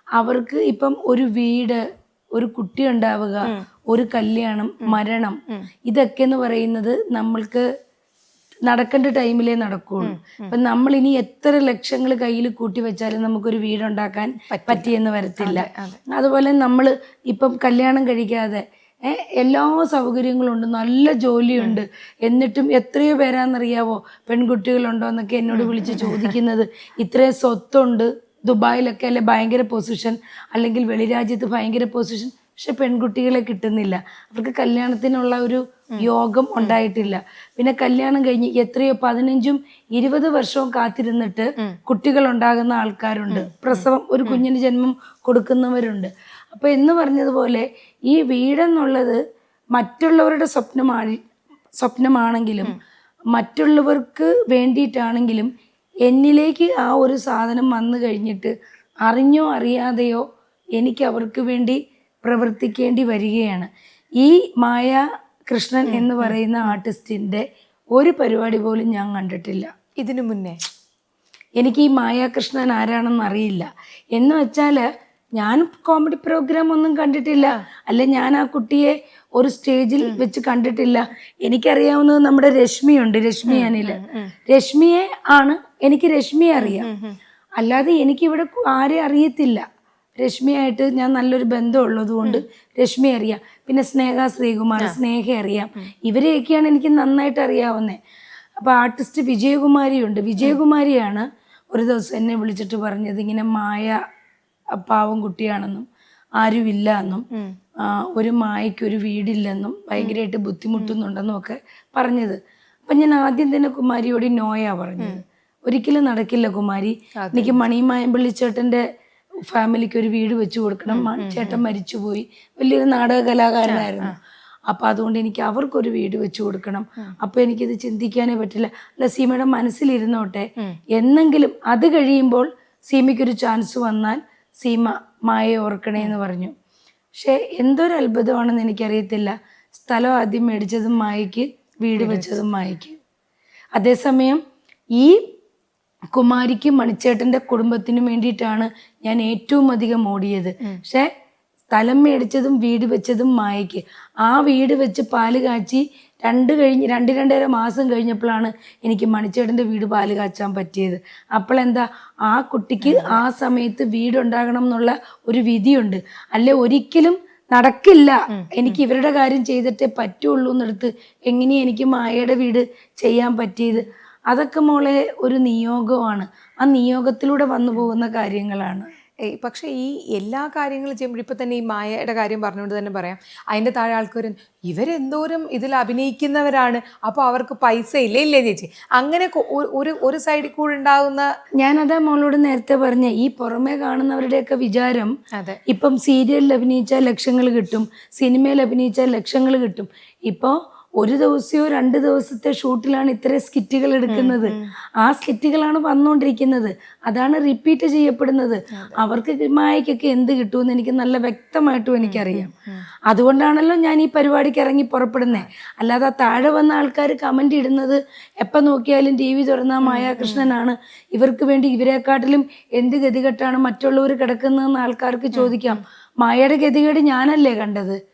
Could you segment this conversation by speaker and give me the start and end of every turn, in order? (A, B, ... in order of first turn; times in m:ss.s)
0:00.2-0:01.8 A
0:02.4-0:07.6 A
0:08.7-0:49.2 A
0:10.0-0:10.5 B
0:14.5-0:16.0 B
0:25.5-0:26.4 B
0:36.0-0:37.1 B
0:43.3-0:44.4 B
0:49.8-0:51.2 A
0:51.8-0:52.8 A
0:53.3-0:55.5 A
0:56.1-0:58.5 A
0:59.1-1:00.2 A
1:00.8-1:07.4 A
1:05.8-1:06.8 B
1:08.0-1:09.7 A
1:10.0-1:10.6 B
1:11.6-1:14.8 A
1:15.4-1:26.9 A
1:23.5-1:24.3 B
1:26.6-1:27.2 B
1:27.6-1:29.6 A
1:30.2-1:38.0 A
1:38.6-1:44.0 A
1:44.8-1:45.9 A
1:46.4-1:47.3 A
1:47.8-1:58.8 A
1:57.2-1:57.6 B
1:59.5-2:04.2 A
2:00.9-2:01.6 B
2:03.7-2:04.2 B
2:04.7-2:16.5 A
2:17.2-2:23.0 A
2:22.0-2:22.3 B
2:23.8-2:24.4 A
2:25.0-2:25.2 A
2:26.1-2:31.1 A
2:31.7-2:58.9 A
2:42.8-2:43.2 B
2:48.3-2:48.8 B
2:59.2-3:11.3 B
3:11.6-3:15.1 A
3:15.7-3:32.5 A
3:24.1-3:24.7 B
3:28.7-3:29.0 B
3:32.0-3:32.8 B
3:33.1-3:48.0 A
3:39.8-3:40.5 B
3:45.3-3:45.8 B